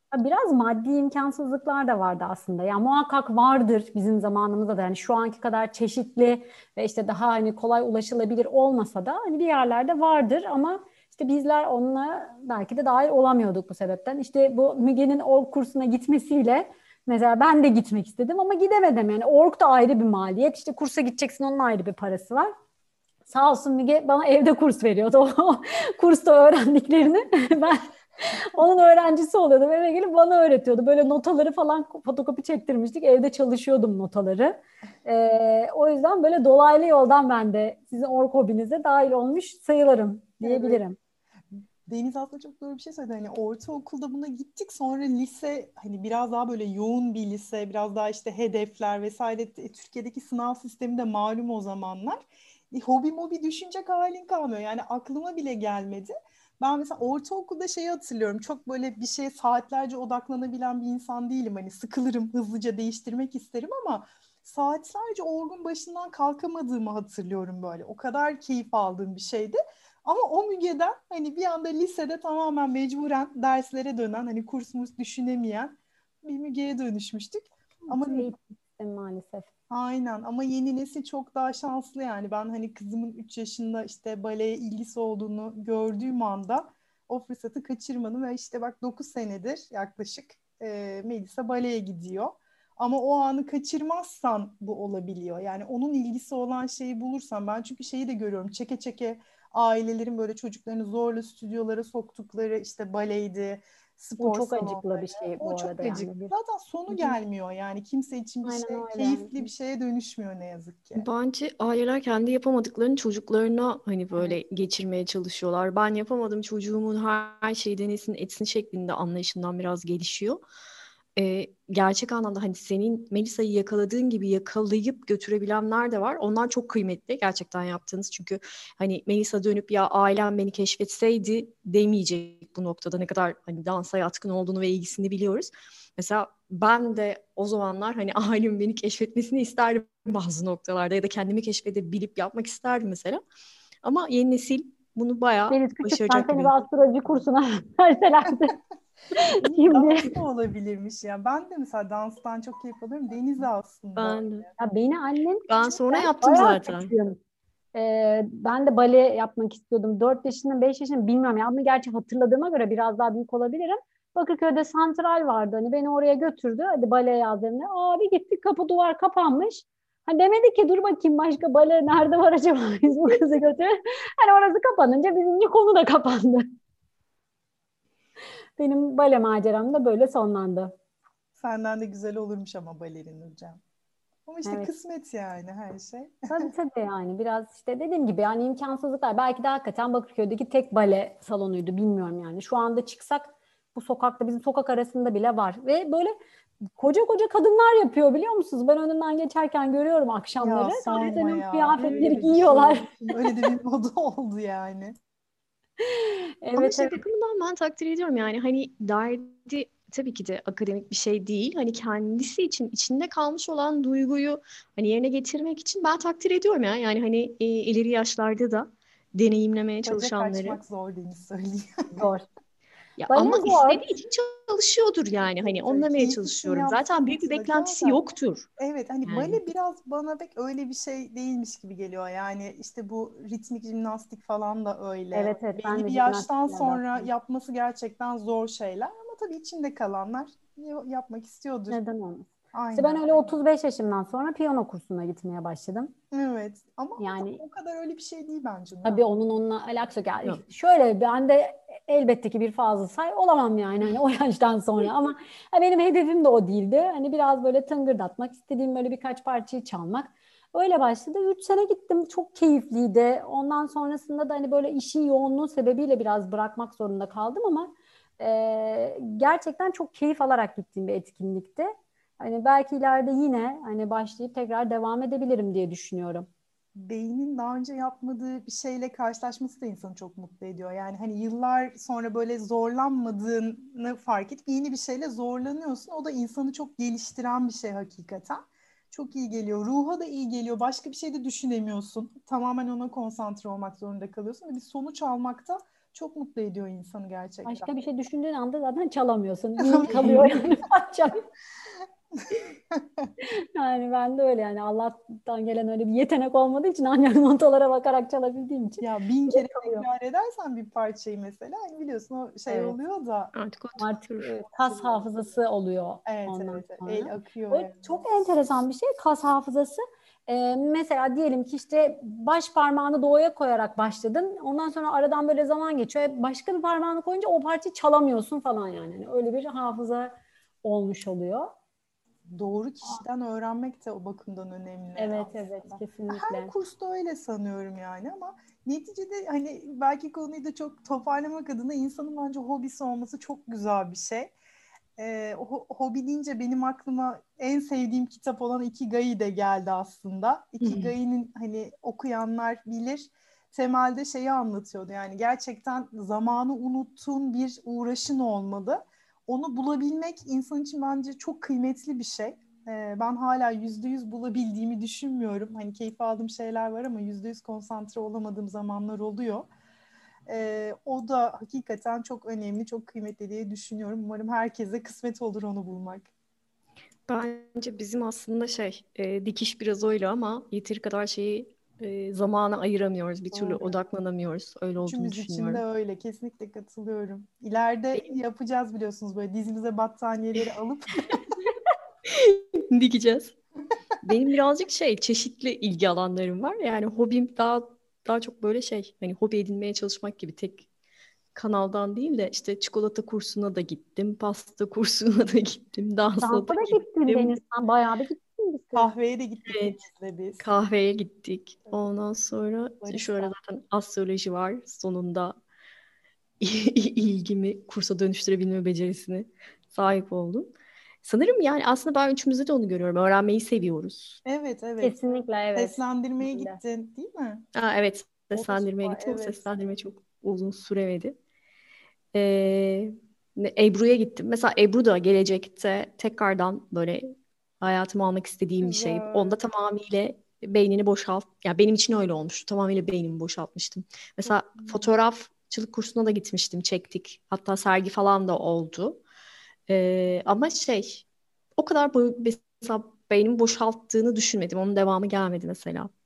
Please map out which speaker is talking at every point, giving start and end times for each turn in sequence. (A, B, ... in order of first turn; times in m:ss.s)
0:00.1-0:22.5 A
0:23.3-0:41.0 A
0:40.4-0:40.8 B
0:41.9-1:18.3 B
1:17.9-1:19.5 A
1:19.7-1:51.1 B
1:44.2-1:46.3 A
1:46.9-1:47.2 A
1:48.4-1:49.5 A
1:51.0-2:00.4 C
2:01.2-2:23.2 C
2:23.8-2:26.6 C
2:25.5-2:28.6 A
2:29.2-2:30.1 A
2:29.4-2:34.5 B
2:34.0-2:34.5 C
2:34.6-2:37.2 A
2:35.5-2:36.9 C
2:37.7-2:56.4 A
2:58.6-3:00.7 A
3:01.4-3:03.6 B
3:04.3-3:06.5 B
3:04.4-3:04.7 A
3:06.3-3:16.1 A
3:16.8-3:23.4 A
3:20.4-3:25.0 B
3:25.8-3:27.0 A
3:26.6-3:40.6 C
3:39.8-3:42.1 B
3:42.0-3:42.2 A
3:43.0-3:48.5 C
3:43.1-3:43.8 A
3:45.4-3:48.0 B
3:48.6-4:01.8 B
3:49.1-3:49.4 C
3:55.2-3:57.1 A
4:01.7-4:05.9 A
4:02.5-4:03.3 B
4:06.1-4:09.0 B
4:07.0-4:07.4 A
4:08.8-4:36.3 A
4:36.8-4:57.7 B
4:57.5-5:01.2 A
4:59.6-5:00.4 B
5:02.3-5:03.1 B
5:03.6-5:09.9 A
5:08.8-5:13.3 B
5:12.5-5:12.8 A
5:13.3-5:15.0 C
5:13.8-5:30.1 A
5:16.1-5:17.9 B
5:30.6-5:31.5 A
5:32.3-5:44.4 B
5:35.0-5:36.5 A
5:45.0-6:09.5 B
5:50.6-5:51.0 C
6:10.3-6:16.1 B
6:17.1-6:25.6 C
6:23.3-6:23.8 B
6:24.8-6:31.2 B
6:32.1-6:33.4 C
6:34.0-6:40.7 C
6:41.4-6:47.4 C
6:46.2-6:48.9 A
6:48.8-6:50.5 B
6:49.5-6:49.8 C
6:50.4-6:55.4 C
6:52.8-6:53.3 B
6:56.4-7:04.2 C
7:04.2-7:05.0 B
7:04.8-7:06.6 A
7:05.6-7:07.4 B
7:07.6-7:11.2 C
7:08.4-7:09.5 B
7:12.1-7:29.0 C
7:18.6-7:19.4 B
7:24.6-7:24.8 B
7:29.7-7:31.1 C
7:31.6-7:35.9 C